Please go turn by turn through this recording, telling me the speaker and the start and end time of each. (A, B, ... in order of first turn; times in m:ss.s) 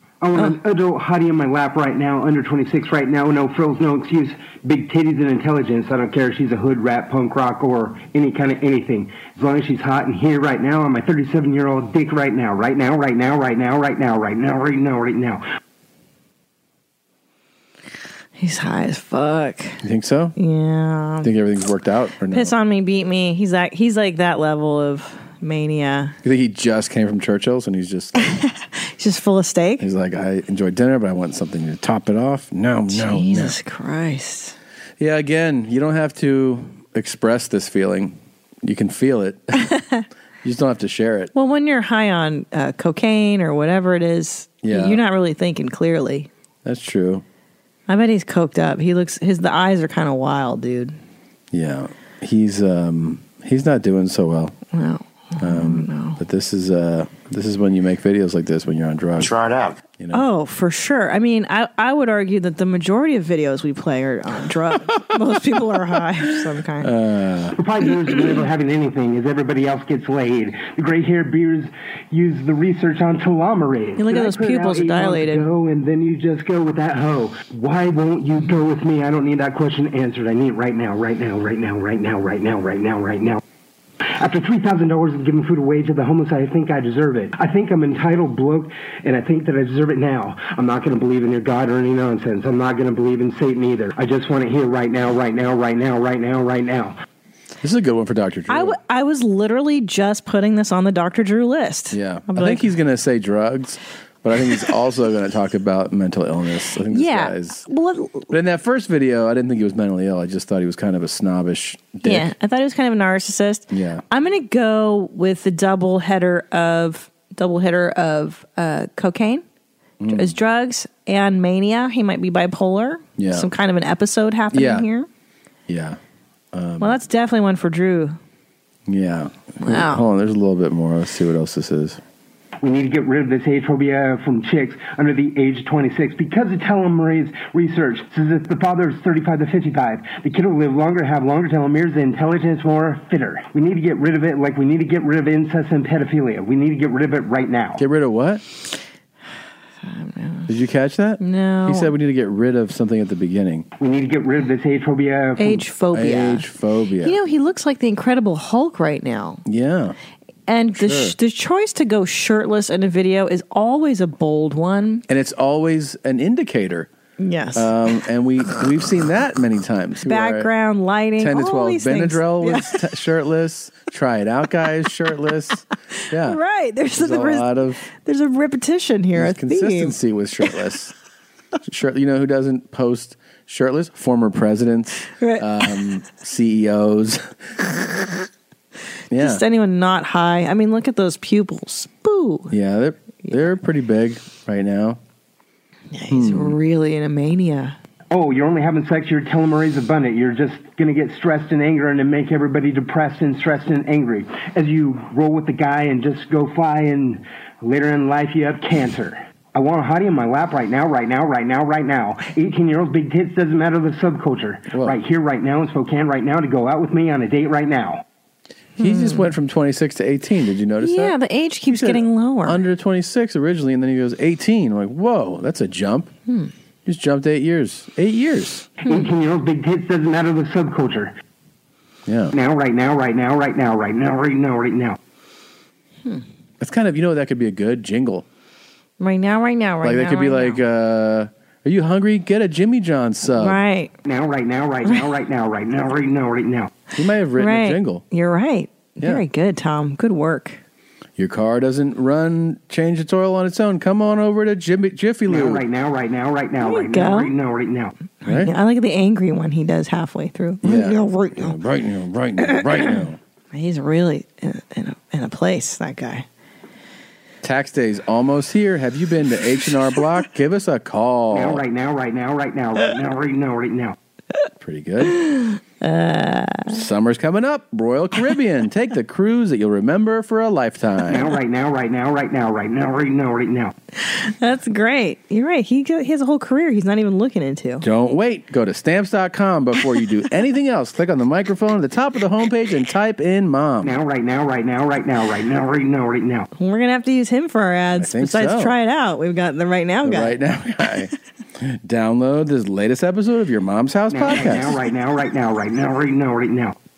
0:00.2-0:15.4 A
0:18.4-0:19.8 B
0:19.8-0:20.3 C
0:20.4-0:21.3 B
0:21.2-0:22.5 C
0:22.3-0:26.1 B
0:26.2-0:28.3 C
0:28.2-0:29.8 B
0:29.8-0:33.6 C
0:32.9-0:34.6 B
0:35.0-0:39.6 C
0:39.7-0:40.0 B
0:40.4-0:41.3 C
0:41.3-0:46.3 B
0:44.6-0:45.0 C
0:46.6-0:47.2 C
0:47.9-0:50.9 B
0:51.5-0:54.5 C
0:54.7-0:56.2 B
0:55.4-1:00.2 C
1:00.1-1:06.9 B
1:05.0-1:05.6 C
1:06.8-1:07.6 C
1:07.6-1:23.4 A
1:14.0-1:15.5 B
1:24.1-1:36.9 A
1:37.6-1:38.8 C
1:38.5-1:42.7 B
1:41.9-1:47.6 C
1:46.9-1:48.3 B
1:48.3-1:52.3 C
1:52.0-1:59.4 B
1:53.7-1:54.0 C
2:00.0-2:00.3 C
2:00.1-2:05.1 B
2:03.2-2:03.5 C
2:04.5-2:04.8 C
2:05.7-2:06.0 C
2:06.5-2:07.0 C
2:06.8-2:08.2 B
2:08.9-2:12.0 C
2:09.6-2:10.0 B
2:12.6-2:27.8 A
2:27.8-2:28.4 C
2:29.8-2:30.5 B
2:30.5-2:33.6 C
2:31.2-2:31.9 B
2:33.8-2:35.6 A
2:35.4-2:36.5 B
2:35.9-2:37.2 C
2:37.0-2:39.4 B
2:39.4-2:39.9 C
2:40.5-2:45.0 B
2:40.8-2:41.1 C
2:45.1-2:46.9 C
2:47.2-2:47.7 B
2:47.5-2:50.5 C
2:50.0-2:52.8 B
2:51.2-2:56.4 C
2:56.2-3:00.0 B
2:56.9-2:57.8 C
2:59.1-3:00.9 C
3:01.7-3:07.7 C
3:05.2-3:05.8 B
3:09.1-3:09.4 C
3:09.1-3:12.5 B
3:12.5-3:15.0 C
3:15.9-3:17.8 B
3:16.1-3:16.6 C
3:18.1-3:38.0 A
3:34.7-3:35.0 C
3:38.8-3:39.3 B
3:38.8-3:41.1 C
3:40.8-3:42.6 B
3:41.7-3:46.1 C
3:46.8-3:48.7 C
3:48.8-3:51.1 A
3:52.0-3:52.3 C
3:52.3-3:55.0 A
3:56.6-3:58.2 C
3:59.0-4:00.6 B
3:59.8-4:03.6 C
4:03.3-4:03.9 B
4:04.0-4:06.8 A
4:06.9-4:08.0 C
4:07.4-4:10.6 B
4:11.2-4:15.6 C
4:15.3-4:17.9 A
4:16.6-4:17.3 B
4:18.2-4:21.6 B
4:18.2-4:18.5 C
4:20.6-4:23.2 C
4:22.4-4:26.2 B
4:27.4-4:31.6 C
4:31.3-4:34.0 A
4:34.6-4:35.2 C
4:35.2-4:36.8 B
4:36.7-4:41.3 C
4:41.1-4:43.7 A
4:44.0-4:47.8 B
4:47.8-4:53.9 C
4:53.8-4:56.5 A
4:56.5-5:00.4 B
4:58.0-4:58.7 C
5:00.0-5:04.8 C
5:04.1-5:06.7 A